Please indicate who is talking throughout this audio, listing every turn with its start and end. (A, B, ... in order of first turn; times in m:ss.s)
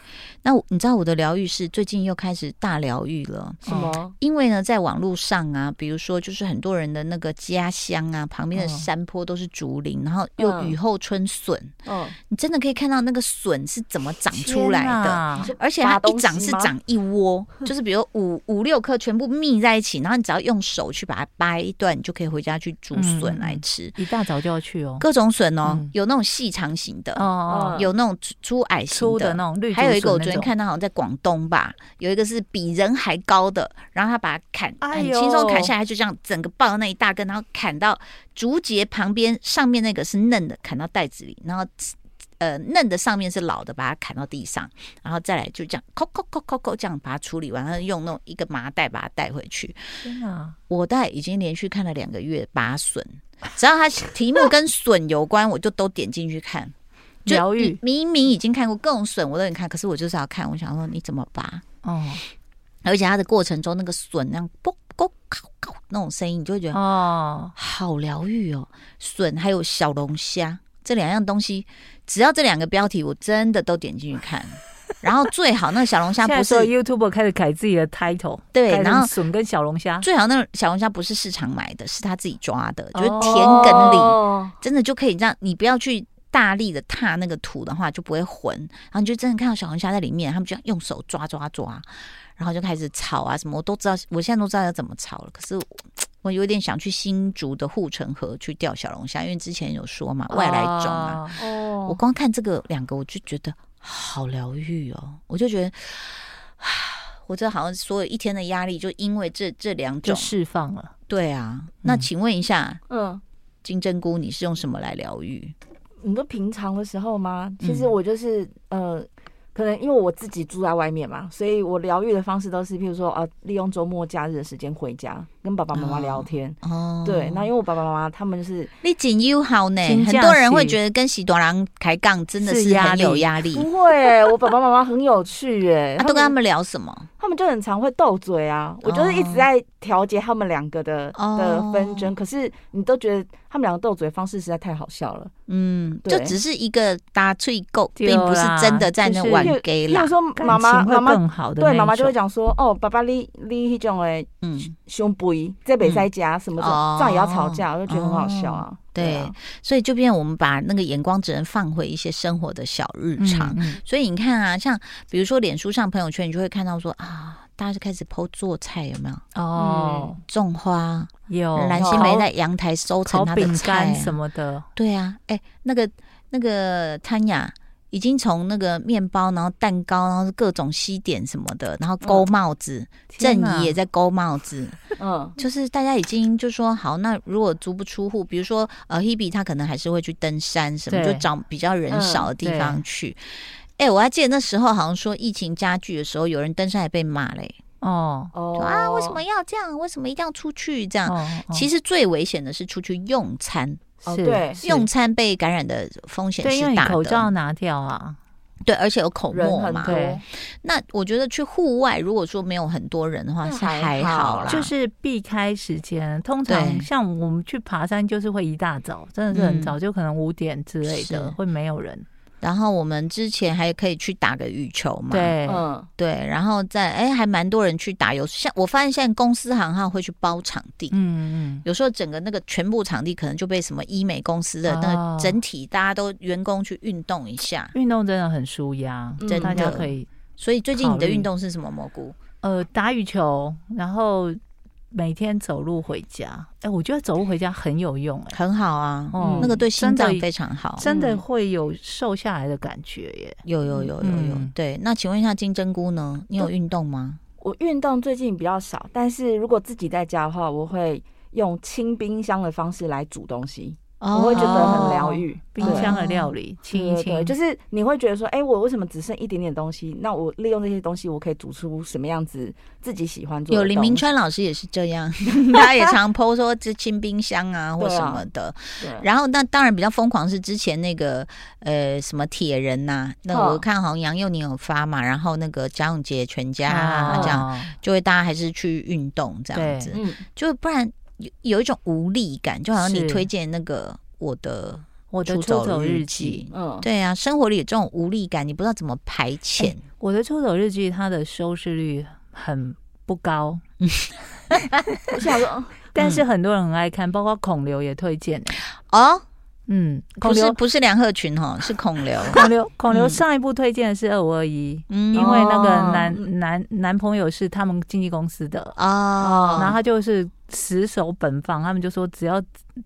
0:00.4-0:03.6 A
0:03.6-0:04.1 B
0:03.7-0:03.9 C
0:04.2-0:11.7 A
0:08.5-0:08.9 C
0:10.4-0:10.8 B
0:11.8-0:12.2 B
0:12.3-0:24.0 A
0:14.3-0:15.5 C
0:15.4-0:16.7 B
0:22.9-0:25.1 C
0:25.0-0:49.8 A
0:25.6-0:25.9 C
0:27.1-0:27.8 C
0:27.5-0:27.9 B
0:28.9-0:30.5 C
0:34.8-0:35.7 C
0:50.0-0:50.6 C
0:50.7-0:56.7 A
0:57.2-0:57.8 C
0:57.2-1:01.6 A
1:01.8-1:02.2 C
1:02.8-1:06.8 A
1:06.7-1:07.5 C
1:07.6-1:16.7 A
1:16.2-1:20.1 C
1:18.5-1:19.1 A
1:20.0-1:50.3 A
1:22.9-1:24.0 C
1:23.2-1:24.5 B
1:40.3-1:41.4 C
1:41.4-1:42.0 B
1:50.0-1:50.9 C
1:51.1-1:52.8 A
1:52.9-1:53.2 B
1:53.6-1:55.5 A
1:56.0-2:08.7 B
1:57.6-1:57.9 A
2:05.7-2:07.5 A
2:08.8-2:13.7 A
2:09.8-2:10.8 C
2:12.4-2:13.3 C
2:13.5-2:16.3 B
2:16.0-2:17.1 A
2:17.2-2:25.3 B
2:18.8-2:19.5 A
2:21.1-2:22.1 A
2:25.5-2:30.1 A
2:26.0-2:26.4 B
2:28.0-2:29.6 C
2:29.4-2:39.4 B
2:30.4-2:32.1 C
2:34.4-2:34.7 A
2:35.8-2:49.2 A
2:43.2-2:43.8 C
2:49.3-2:50.2 C
2:49.6-2:50.1 B
2:50.2-2:54.2 A
2:51.3-2:52.3 C
2:51.8-2:52.2 B
2:53.0-2:54.7 C
2:54.8-3:13.2 A
3:02.0-3:02.3 B
3:03.1-3:03.8 C
3:05.0-3:05.4 B
3:10.9-3:11.3 C
3:11.9-3:12.3 B
3:12.4-3:12.8 C
3:13.8-3:17.6 A
3:17.8-3:18.3 C
3:18.3-3:19.2 B
3:18.5-3:23.9 A
3:21.0-3:21.7 C
3:24.0-3:24.6 B
3:24.1-3:24.8 C
3:24.6-3:27.3 A
3:26.4-3:28.2 C
3:28.6-3:34.7 A
3:29.3-3:30.2 B
3:29.8-3:30.2 C
3:33.4-3:34.6 B
3:34.5-3:42.0 C
3:36.5-3:36.9 A
3:39.3-3:39.8 A
3:40.8-3:41.4 A
3:42.4-3:45.4 A
3:45.1-3:45.6 C
3:45.4-3:45.9 B
3:46.0-3:51.0 A
3:50.9-3:51.6 C
3:51.6-3:57.7 A
3:54.6-3:55.4 C
3:57.7-4:00.1 C
3:59.2-3:59.8 B
3:59.3-4:02.2 A
4:00.7-4:01.3 C
4:02.4-4:04.4 C
4:04.9-4:08.4 C
4:08.3-4:10.8 A
4:09.1-4:13.4 C
4:09.2-4:09.6 B
4:10.8-4:11.2 B
4:13.4-4:17.2 A
4:14.0-4:14.5 C
4:17.4-4:25.9 B
4:24.0-4:26.3 A
4:24.3-4:27.4 C
4:26.7-4:34.0 B
4:33.5-4:59.8 A
4:37.8-4:38.2 B
4:38.8-4:39.1 B
4:43.3-4:43.6 B
4:46.6-4:47.7 C
4:47.1-4:47.4 B
4:49.5-4:50.0 C
4:49.9-4:50.2 B
4:52.8-4:53.3 C
4:55.1-4:56.4 C
4:56.5-4:56.9 B
4:59.6-5:03.6 C
5:03.8-5:04.1 A
5:05.1-5:05.8 B
5:05.9-5:08.6 C
5:06.0-5:06.2 A
5:08.9-5:09.2 A
5:09.7-5:10.6 C
5:10.2-5:13.2 A
5:12.3-5:18.8 C
5:14.9-5:15.4 A
5:15.1-5:16.2 B
5:18.8-5:19.8 A
5:19.2-5:19.8 B
5:19.6-5:22.4 C